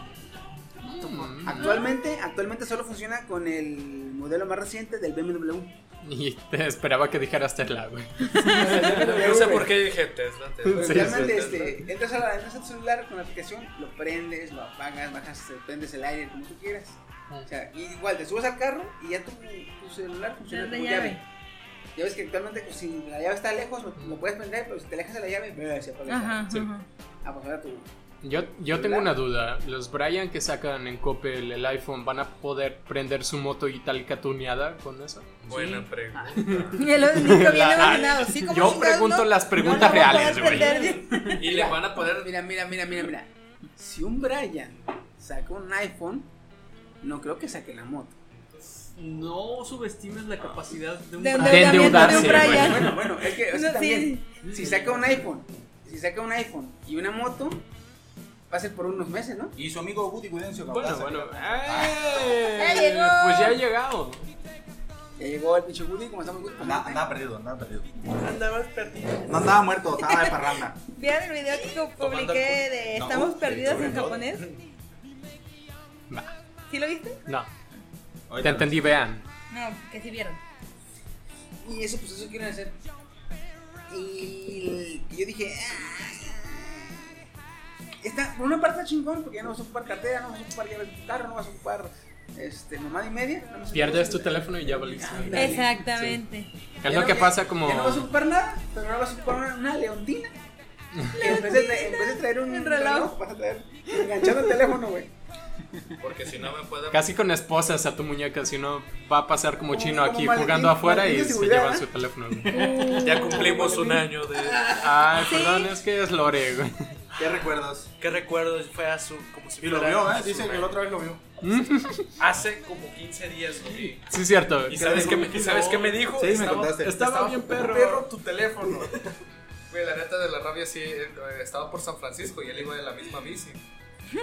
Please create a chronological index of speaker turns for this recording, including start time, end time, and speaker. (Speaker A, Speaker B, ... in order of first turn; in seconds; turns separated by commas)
Speaker A: 0.9-5.8, Speaker B: 1.0-1.7, Speaker C: 1.6-1.9, Speaker B: 6.0-9.3, Speaker A: 8.4-9.8, Speaker D: 8.7-11.8, Speaker B: 10.7-11.6, Speaker A: 10.7-21.2, Speaker C: 20.5-21.2, Speaker A: 21.9-26.5, Speaker C: 26.1-26.9, Speaker A: 27.2-27.9, Speaker B: 28.2-35.4, Speaker A: 28.7-29.1, Speaker D: 35.5-36.9, Speaker E: 35.5-36.6, Speaker B: 36.5-40.9, Speaker C: 36.8-41.1, Speaker E: 40.5-41.4, Speaker D: 40.7-42.5, Speaker A: 41.4-46.3, Speaker A: 47.0-48.2, Speaker D: 48.5-48.9, Speaker E: 49.0-52.8, Speaker C: 51.2-52.9, Speaker B: 51.4-52.9, Speaker A: 52.1-57.6, Speaker C: 53.5-54.2, Speaker A: 58.5-59.5, Speaker F: 59.6-62.4, Speaker B: 60.7-64.3, Speaker C: 62.5-63.6, Speaker A: 65.2-67.1, Speaker F: 66.6-68.0, Speaker D: 68.2-69.2, Speaker E: 68.3-69.6, Speaker F: 69.3-70.8, Speaker C: 70.0-70.3, Speaker C: 70.9-74.4, Speaker D: 72.0-72.6, Speaker F: 73.0-74.4, Speaker B: 76.1-76.3, Speaker C: 76.7-77.2, Speaker B: 77.3-77.5, Speaker F: 78.3-78.9, Speaker B: 78.4-79.3, Speaker C: 79.5-80.4, Speaker A: 81.6-82.8, Speaker A: 83.9-87.2, Speaker A: 88.0-95.8, Speaker B: 93.7-96.2, Speaker C: 95.3-96.5, Speaker B: 96.8-98.1, Speaker A: 96.8-100.4, Speaker A: 101.0-105.1, Speaker C: 101.2-103.1, Speaker D: 106.0-107.1, Speaker B: 106.9-112.7, Speaker A: 109.7-111.9, Speaker E: 112.5-113.3, Speaker C: 112.5-113.6, Speaker D: 113.0-114.8, Speaker A: 113.3-114.0, Speaker B: 114.7-117.0, Speaker C: 115.2-115.7, Speaker F: 117.2-117.9, Speaker D: 118.0-121.1, Speaker F: 119.6-121.2, Speaker B: 121.4-122.1, Speaker D: 122.2-124.1, Speaker B: 123.8-125.4, Speaker D: 124.7-129.0, Speaker F: 124.7-125.4, Speaker E: 125.1-126.2, Speaker F: 126.1-127.0, Speaker B: 126.8-128.1, Speaker D: 129.7-133.6